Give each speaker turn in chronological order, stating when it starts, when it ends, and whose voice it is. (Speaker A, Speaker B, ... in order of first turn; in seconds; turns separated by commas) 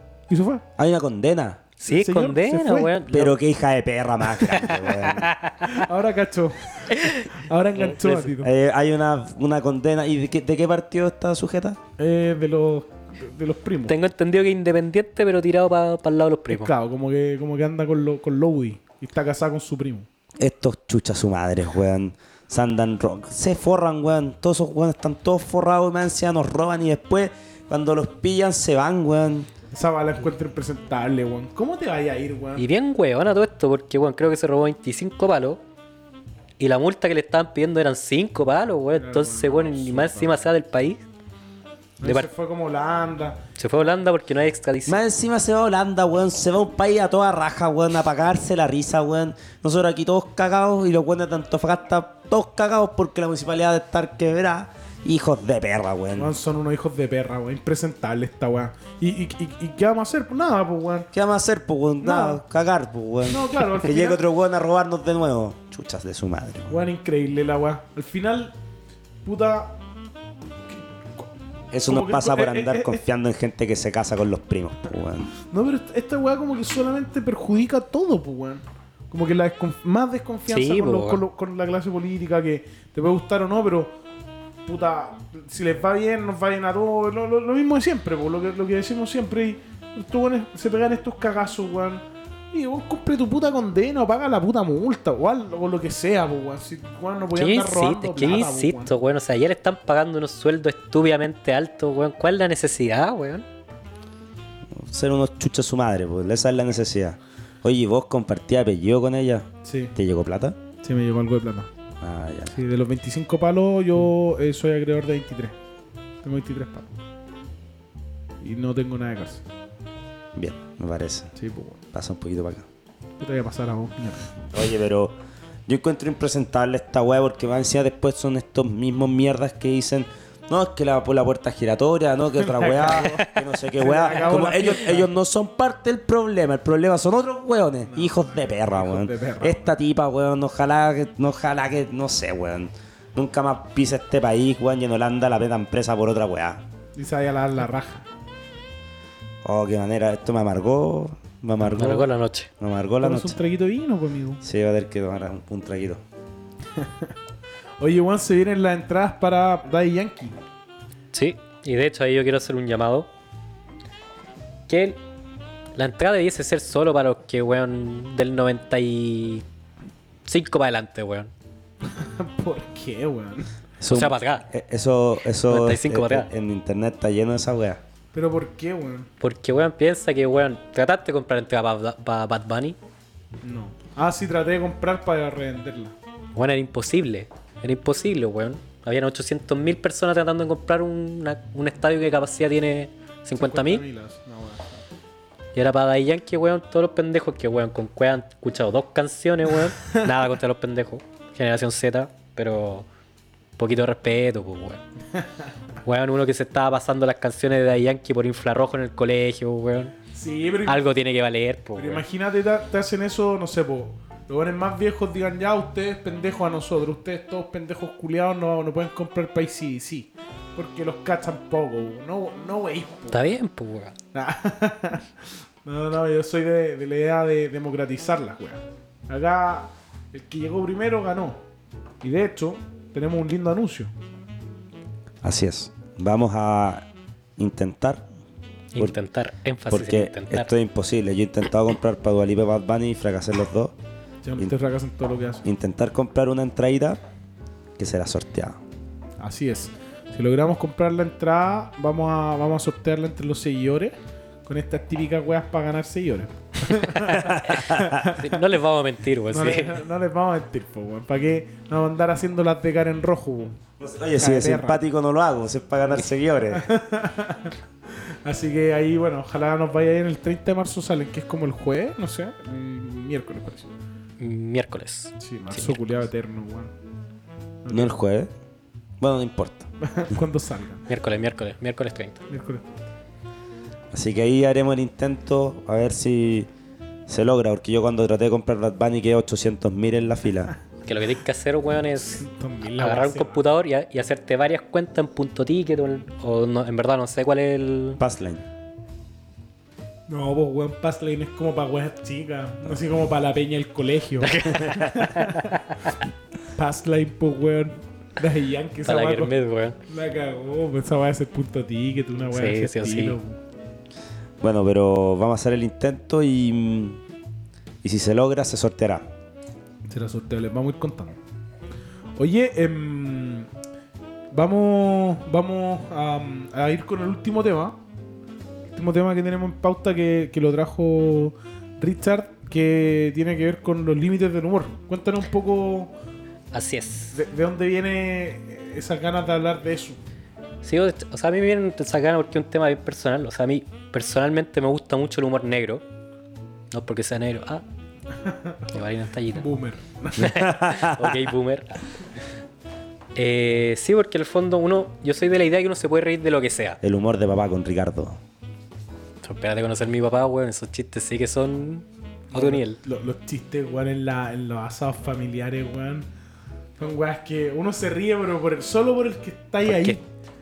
Speaker A: 0.3-0.7, Speaker B: 0.8-1.6, Speaker C: 1.8-3.4, Speaker A: 1.9-3.0, Speaker B: 3.1-5.3, Speaker C: 4.5-5.8, Speaker A: 5.6-8.5, Speaker C: 6.9-8.3, Speaker B: 8.4-11.8, Speaker A: 12.0-14.0, Speaker C: 13.9-16.7, Speaker A: 16.5-20.1, Speaker B: 20.4-29.5, Speaker A: 29.7-32.6, Speaker C: 32.6-35.6, Speaker C: 36.6-41.0, Speaker A: 39.0-40.5, Speaker A: 42.0-43.5, Speaker C: 42.0-42.3, Speaker C: 43.6-45.0, Speaker B: 44.9-56.4, Speaker A: 56.2-61.1, Speaker B: 61.1-66.9, Speaker A: 62.0-62.4, Speaker A: 63.3-64.2, Speaker A: 66.7-68.5, Speaker A: 69.2-69.8, Speaker A: 70.7-71.3, Speaker B: 71.7-75.3, Speaker A: 71.9-73.0, Speaker A: 75.5-84.0, Speaker C: 80.5-81.2, Speaker A: 84.7-98.9, Speaker C: 97.3-103.5, Speaker B: 104.7-110.6, Speaker A: 109.6-110.0, Speaker A: 110.8-111.7, Speaker B: 112.0-112.6, Speaker A: 112.5-115.6, Speaker A: 116.2-117.0, Speaker A: 118.4-119.4, Speaker B: 120.3-121.3, Speaker A: 121.4-121.8, Speaker B: 121.9-122.7, Speaker A: 123.2-124.3, Speaker B: 124.5-125.1, Speaker B: 125.7-146.6, Speaker A: 132.4-135.1, Speaker C: 134.1-134.5, Speaker A: 137.9-139.7, Speaker A: 146.9-148.1, Speaker B: 149.4-152.1, Speaker C: 151.7-152.5, Speaker B: 152.6-153.4, Speaker A: 153.0-154.4, Speaker B: 154.4-156.0, Speaker A: 156.8-157.1, Speaker A: 157.8-160.4, Speaker C: 161.1-163.1, Speaker C: 164.7-165.0, Speaker C: 165.8-169.4, Speaker C: 170.3-171.3, Speaker A: 171.8-173.5, Speaker B: 173.8-177.8, Speaker C: 173.9-174.5, Speaker C: 175.5-176.3, Speaker A: 178.1-179.1, Speaker C: 179.2-182.8, Speaker A: 183.4-185.9, Speaker C: 186.3-193.8, Speaker A: 193.4-194.8, Speaker C: 195.6-202.9, Speaker C: 203.6-204.8, Speaker A: 205.2-205.5, Speaker C: 205.8-209.9, Speaker A: 210.1-210.9, Speaker C: 210.7-212.0, Speaker A: 211.8-223.2, Speaker C: 223.1-223.9, Speaker A: 224.1-231.4, Speaker A: 232.0-233.9, Speaker B: 235.2-238.1, Speaker C: 238.7-240.5, Speaker B: 239.7-243.8, Speaker A: 244.2-245.4, Speaker B: 245.4-247.0, Speaker B: 247.8-248.6, Speaker A: 249.2-258.4, Speaker C: 256.8-259.8, Speaker B: 257.2-258.0, Speaker A: 259.3-263.6, Speaker B: 263.8-266.7, Speaker A: 264.2-264.8, Speaker A: 266.5-273.7, Speaker C: 274.2-275.8, Speaker A: 275.2-276.7, Speaker A: 277.6-278.0, Speaker B: 277.7-278.3, Speaker B: 279.0-279.7, Speaker A: 279.8-280.9, Speaker C: 280.9-282.2, Speaker A: 282.3-282.7, Speaker B: 283.9-286.5, Speaker B: 287.1-290.6, Speaker C: 290.9-298.0, Speaker A: 292.0-293.4, Speaker B: 298.0-298.5, Speaker A: 300.1-305.8, Speaker C: 304.2-305.8, Speaker A: 306.6-313.4, Speaker C: 308.8-309.8, Speaker C: 312.3-313.2, Speaker B: 314.4-317.0, Speaker B: 317.8-319.1, Speaker A: 319.9-321.2, Speaker A: 322.2-323.5, Speaker A: 324.3-327.8, Speaker A: 328.7-335.9, Speaker C: 336.5-337.2, Speaker A: 337.1-340.0, Speaker C: 340.6-345.8, Speaker C: 346.7-347.6, Speaker A: 348.2-348.7, Speaker C: 348.7-349.5, Speaker A: 349.3-350.5, Speaker C: 350.2-351.9, Speaker B: 350.2-351.1, Speaker C: 353.2-356.8, Speaker B: 356.8-358.2, Speaker C: 359.2-362.8, Speaker A: 362.3-366.1, Speaker A: 366.8-370.0, Speaker C: 369.7-370.0